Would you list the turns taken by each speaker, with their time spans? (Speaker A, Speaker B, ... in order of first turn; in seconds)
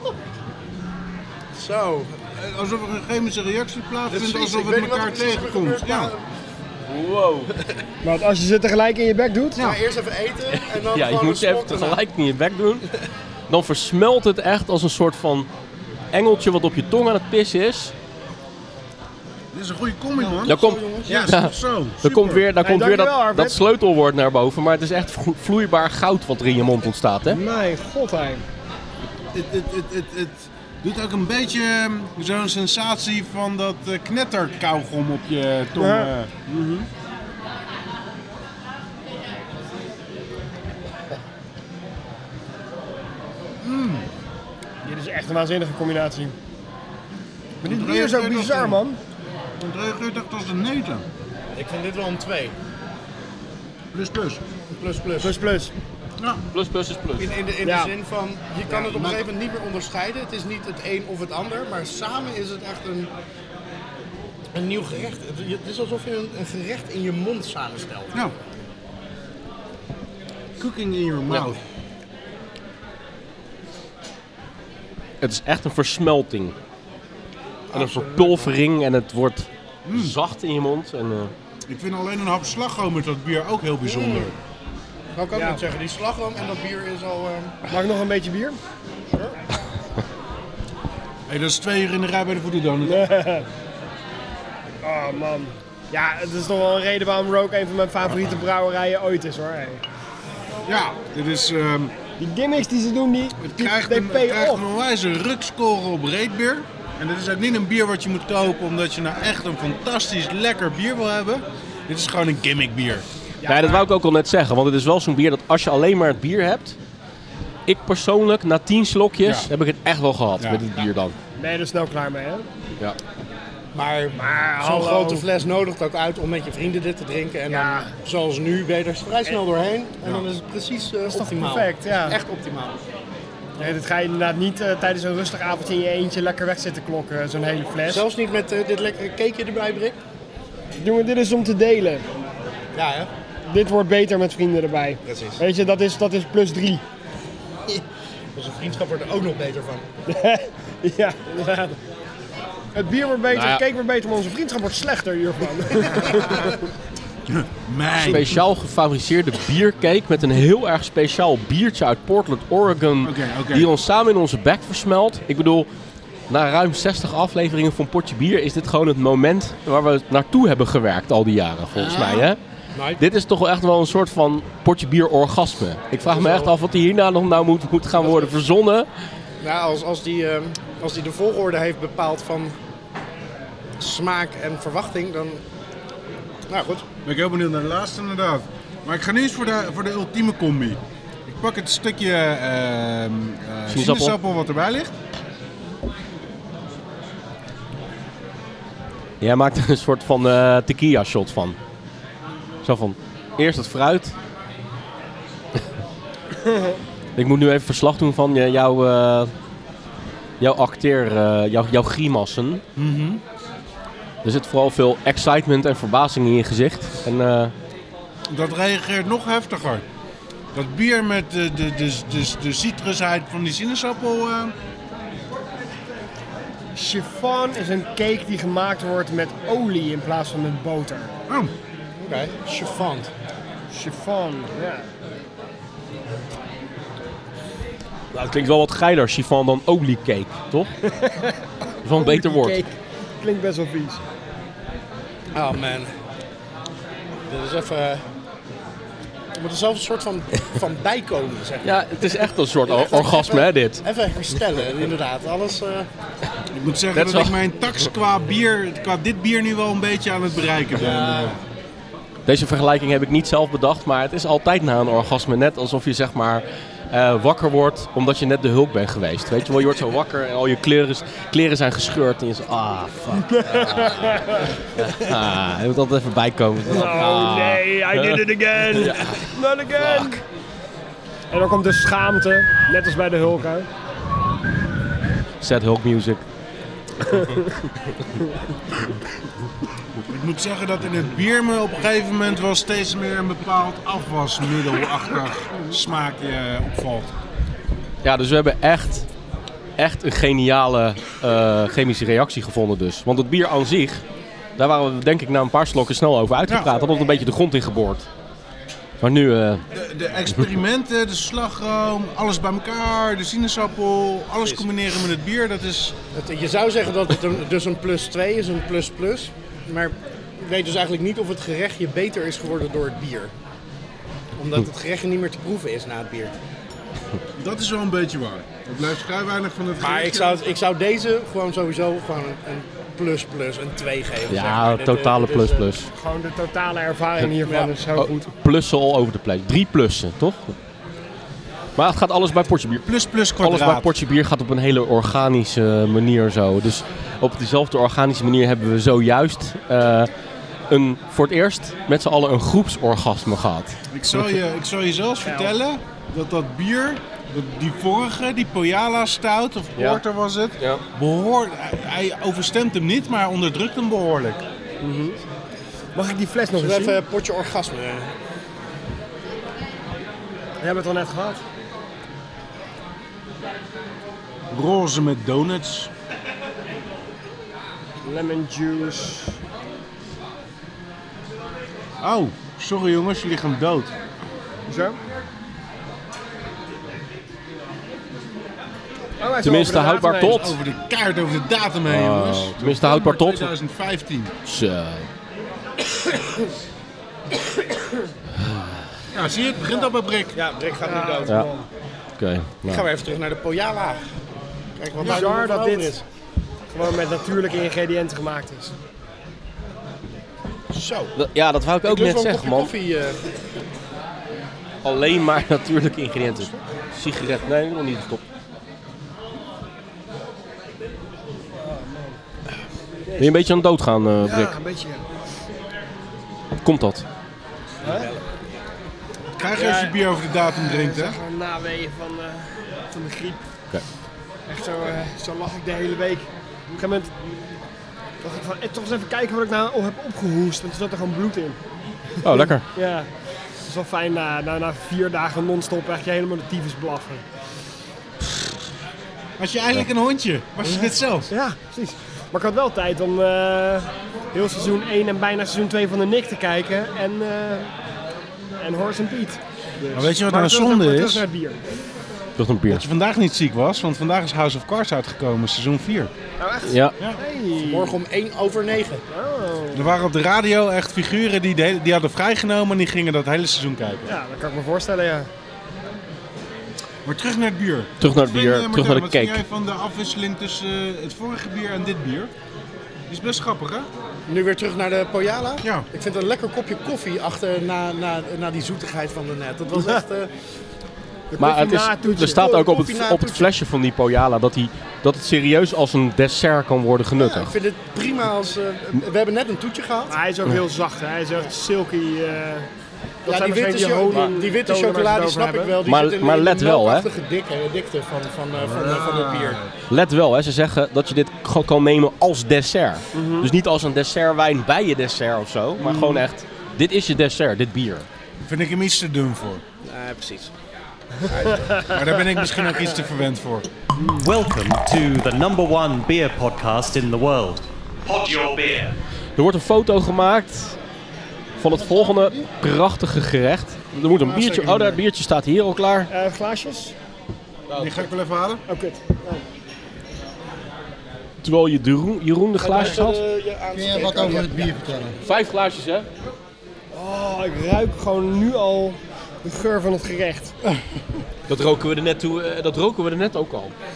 Speaker A: 1.6-2.2, 4.1-6.2, 9.6-12.0, 51.5-52.6, 54.7-55.4, 57.2-63.1, 64.5-68.3, 77.7-78.5, 83.8-84.3, 85.2-87.7, 89.1-89.4, 123.7-132.8, 137.8-140.0, 142.7-143.1, 145.1-145.4, 148.3-149.9, 172.7-173.0, 176.1-176.5, 177.9-178.4, 179.4-182.6, 183.8-185.4, 186.5-186.9, 232.0-233.1, 245.3-245.9, 247.3-248.0, 249.4-255.9, 260.7-261.4, 316.1-323.3, 324.4-326.3, 329.8-335.7, 337.4-337.7, 366.5-368.1, 400.3-401.6, 402.7-404.0, 404.8-406.0, 410.7-411.1, 411.8-413.2, 427.8-428.2, 467.6-469.0, 484.3-490.3, 492.4-493.5, 497.2-500.2, 503.3-509.6, 519.8-520.5, 521.2-521.9, 542.6-544.7
Speaker B: 2.4-6.1, 19.5-22.5, 29.3-36.4, 43.6-44.1, 47.6-48.8, 49.6-51.1, 53.9-54.4, 56.2-56.4, 58.9-59.2, 70.6-71.6, 79.8-80.2, 81.7-84.3, 91.3-93.1, 100.7-101.9, 103.4-113.1, 119.2-119.5, 157.3-158.4, 163.0-163.7, 171.8-172.3, 187.0-194.9, 212.8-213.2, 218.3-219.8, 220.5-224.6, 256.5-261.4, 290.1-297.2, 309.7-315.9, 327.4-330.4, 342.9-343.9, 353.9-364.4, 374.5-375.9, 382.0-383.9, 390.1-394.3, 399.1-400.4, 429.4-431.2, 449.4-451.3, 459.9-461.2, 462.7-466.1, 469.7-474.1, 477.1-482.3, 483.1-483.9, 485.6-485.9, 508.6-509.7, 515.8-516.2, 518.5-519.6, 521.9-523.7, 534.2-535.0, 537.8-538.6
Speaker C: 6.9-7.5, 10.5-12.9, 13.5-15.5, 16.1-17.9, 20.5-27.4, 56.5-57.3, 75.2-76.5, 77.7-81.3, 113.5-116.8, 117.7-121.2, 153.3-153.6, 158.0-165.7, 166.3-172.4, 173.0-178.9, 193.7-194.2, 199.2-201.6, 202.6-204.2, 207.2-209.3, 210.4-212.6, 214.2-217.5, 238.1-240.7, 241.8-242.6, 251.6-253.8, 256.9-257.4, 262.3-280.2, 285.4-286.2, 287.1-287.4, 298.0-299.1, 299.8-304.0, 304.6-308.1, 309.0-309.6, 334.3-335.9, 337.9-340.5, 341.8-342.9, 343.4-350.1, 350.7-353.8, 389.4-390.6, 391.9-393.5, 394.4-395.1, 402.2-402.9, 411.1-412.7, 414.8-418.2, 423.2-424.6, 426.6-427.1, 442.2-442.6, 462.4-462.9, 466.6-466.9, 478.0-479.4, 491.4-497.6, 505.9-507.1, 509.9-518.1, 529.4-530.8, 531.6-536.1, 541.4-543.2, 545.2-546.1, 551.5-553.7
Speaker D: 8.0-9.6, 22.6-23.6, 27.3-28.4, 35.8-36.9, 44.8-46.4, 47.6-49.0, 55.2-55.7, 57.6-57.9, 85.3-85.6, 87.7-88.6, 92.8-93.5, 94.8-99.8, 102.2-104.6, 113.4-113.9, 121.4-122.5, 124.1-125.3, 127.5-127.9, 131.1-132.2, 133.6-138.1, 140.8-142.1, 143.4-146.8, 150.1-151.8, 152.7-156.6, 206.4-206.8, 226.7-231.1, 233.7-234.9, 240.8-244.0, 273.3-274.5, 276.7-280.2, 281.3-283.7, 335.9-338.3, 355.3-355.5, 364.8-365.2, 365.9-367.0, 370.6-371.4, 378.0-379.4, 384.7-385.0, 389.2-390.4, 400.8-401.6, 405.0-405.9, 406.7-408.7, 421.6-422.2, 423.1-423.4, 424.2-425.0, 427.8-428.1, 429.6-433.4, 434.5-437.1, 438.2-441.6, 442.4-443.1, 443.7-447.2, 451.3-457.7, 458.6-461.6, 466.4-468.0, 469.1-469.9, 474.1-475.3, 491.3-492.7, 500.1-502.7, 503.2-505.8, 513.1-513.5, 524.0-524.2, 536.1-536.9, 538.7-539.4, 542.7-543.1, 546.9-550.5
Speaker E: 20.1-21.3, 531.6-532.5, 543.7-545.2
Speaker F: 524.1-529.0